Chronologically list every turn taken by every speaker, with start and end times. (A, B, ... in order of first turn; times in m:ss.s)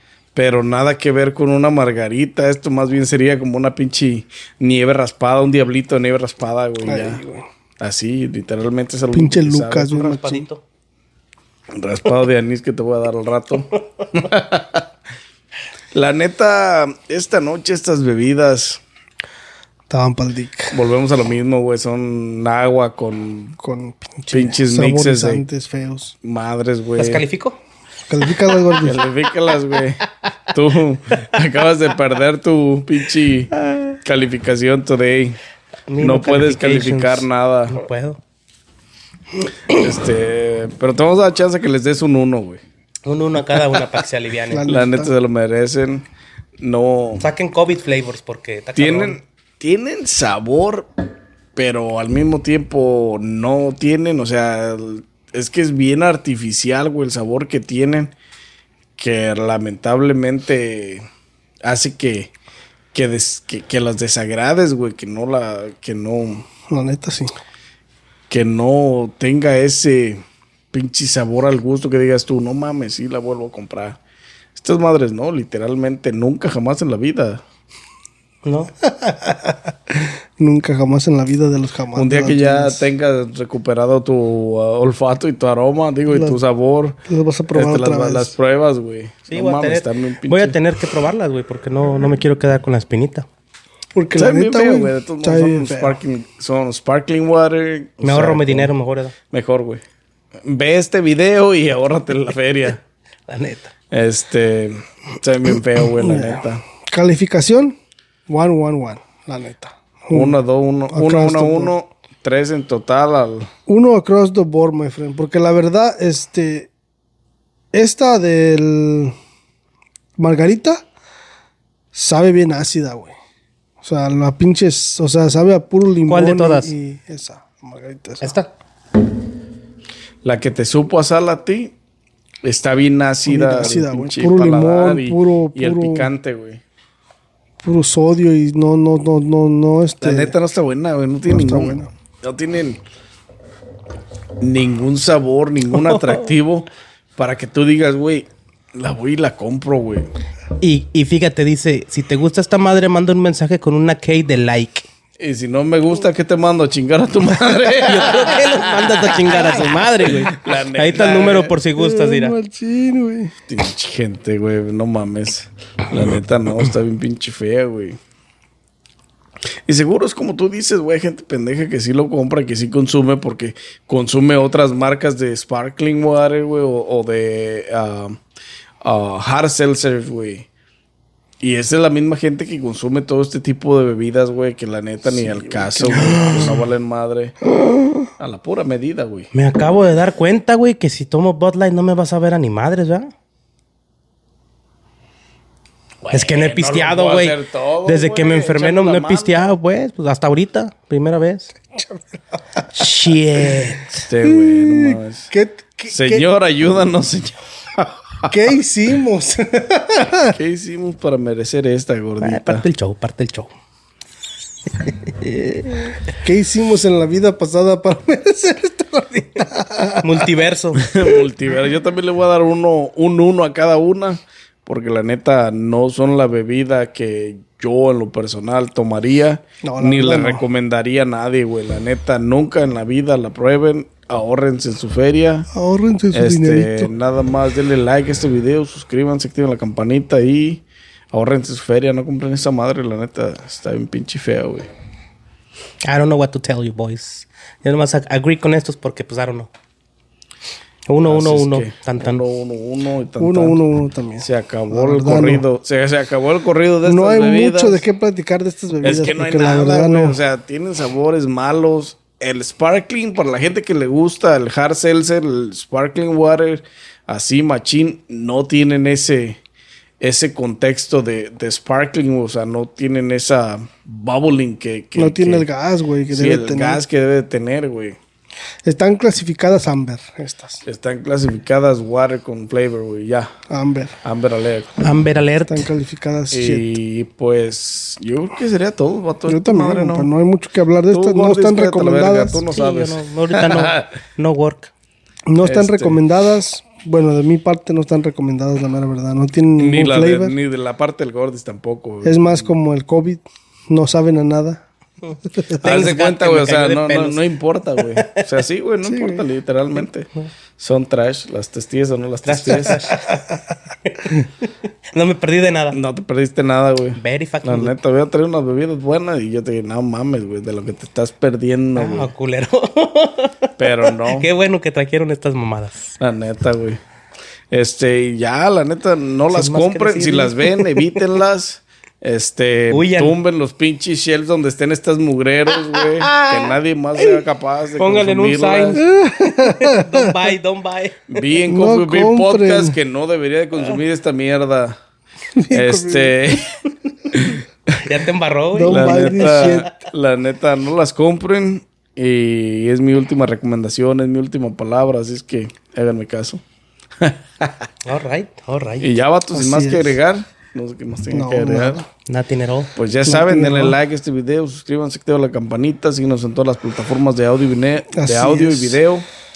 0:00.4-0:07.2 A
0:06.8-0:07.4 B
0:07.8-0:10.0 A
0:09.1-0:10.5 B
0:09.9-0:10.6 C
0:11.7-0:14.8 A
0:15.9-0:18.8 A
0:19.9-0:20.7 B
0:20.7-0:23.6 A
0:23.6-0:26.1 B
0:24.3-0:25.4 A
0:26.2-0:27.2 A
0:27.0-0:27.6 C
0:28.1-0:29.0 B
0:28.8-0:35.4 A
0:35.9-0:38.2 C
0:36.0-0:37.8 A
0:39.7-0:42.6 A
0:43.0-0:44.7 C
0:44.5-0:45.1 B
0:44.6-0:46.1 A
0:46.6-0:47.3 A
0:47.2-0:49.2 C
0:48.8-0:50.9 A
0:51.6-0:58.2 A
0:59.0-1:01.0 A
1:01.6-1:02.3 A
1:02.9-1:06.5 A
1:06.7-1:07.3 B
1:08.3-1:14.0 A
1:14.6-1:17.4 A
1:18.4-1:18.7 C
1:19.0-1:22.9 B
1:21.9-1:27.0 A
1:26.1-1:26.4 B
1:27.1-1:28.4 B
1:27.5-1:30.6 A
1:29.3-1:33.3 C
1:34.0-1:36.0 B
1:34.2-1:38.8 A
1:38.0-1:39.1 C
1:39.3-1:39.8 A
1:40.4-1:42.8 A
1:43.3-1:43.7 C
1:43.9-1:46.6 A
1:46.0-1:47.8 B
1:48.3-1:50.4 B
1:50.1-1:53.5 A
1:50.9-1:51.8 B
1:53.7-1:56.7 B
1:57.7-1:59.1 B
2:00.2-2:00.8 B
2:02.0-2:03.2 B
2:03.8-2:08.3 B
2:06.1-2:06.7 C
2:08.2-2:08.5 C
2:10.2-2:11.7 A
2:12.4-2:16.6 A
2:13.3-2:16.1 B
2:17.6-2:20.4 B
2:20.0-2:22.8 A
2:21.3-2:21.9 B
2:24.4-2:30.1 A
2:30.6-2:34.8 C
2:35.2-2:41.6 A
2:37.8-2:42.4 C
2:41.8-2:43.3 B
2:43.5-2:48.0 A
2:49.7-2:58.2 A
2:58.8-3:00.5 A
3:01.4-3:07.3 A
3:05.9-3:06.6 C
3:08.2-3:09.3 A
3:09.3-3:13.1 C
3:16.0-3:19.5 A
3:16.1-3:21.5 C
3:22.7-3:24.0 C
3:24.1-3:25.3 A
3:24.2-3:26.2 B
3:25.9-3:28.3 A
3:28.3-3:30.4 B
3:30.4-3:32.7 A
3:32.2-3:33.5 C
3:34.8-3:36.0 C
3:36.2-3:40.2 B
3:40.0-3:40.8 C
3:40.8-3:55.5 A
3:49.6-3:50.4 B
3:55.5-3:56.9 B
3:56.1-4:04.7 A
4:05.8-4:09.5 C
4:10.9-4:12.2 C
4:11.0-4:13.6 A
4:13.2-4:15.5 B
4:14.2-4:17.8 A
4:16.8-4:20.2 B
4:18.8-4:29.4 A
4:30.0-4:35.5 A
4:35.0-4:36.8 B
4:36.1-4:38.0 A
4:38.7-4:40.6 B
4:40.6-4:43.3 A
4:43.5-4:43.9 B
4:44.0-4:44.8 A
4:44.8-4:45.7 C
4:45.5-4:46.7 B
4:46.3-4:50.1 A
4:49.3-4:52.5 B
4:50.9-4:53.9 A
4:52.5-4:54.7 C
4:55.3-5:00.4 B
4:55.4-4:56.0 A
4:59.6-5:02.5 A
5:02.0-5:04.6 B
5:05.1-5:08.3 C
5:05.6-5:12.8 A
5:08.8-5:09.2 B
5:12.2-5:15.8 C
5:15.7-5:22.1 A
5:17.0-5:17.8 C
5:21.8-5:26.0 C
5:23.6-5:24.3 A
5:26.0-5:26.8 A
5:27.5-5:38.8 A
5:29.3-5:31.1 C
5:32.7-5:33.2 C
5:35.8-5:36.4 C
5:37.8-5:41.1 C
5:38.9-5:40.1 B
5:41.1-5:44.8 A
5:41.5-5:42.8 B
5:45.4-5:46.2 B
5:45.5-5:46.5 A
5:47.1-5:47.4 A
5:47.8-5:49.7 C
5:48.5-5:49.7 B
5:48.6-5:56.4 A
5:57.0-5:57.5 A
5:57.8-5:59.0 C
5:58.8-6:01.8 A
5:59.3-6:00.0 B
6:01.1-6:01.9 B
6:02.1-6:02.7 C
6:02.8-6:09.1 A
6:03.0-6:03.8 B
6:07.9-6:08.8 B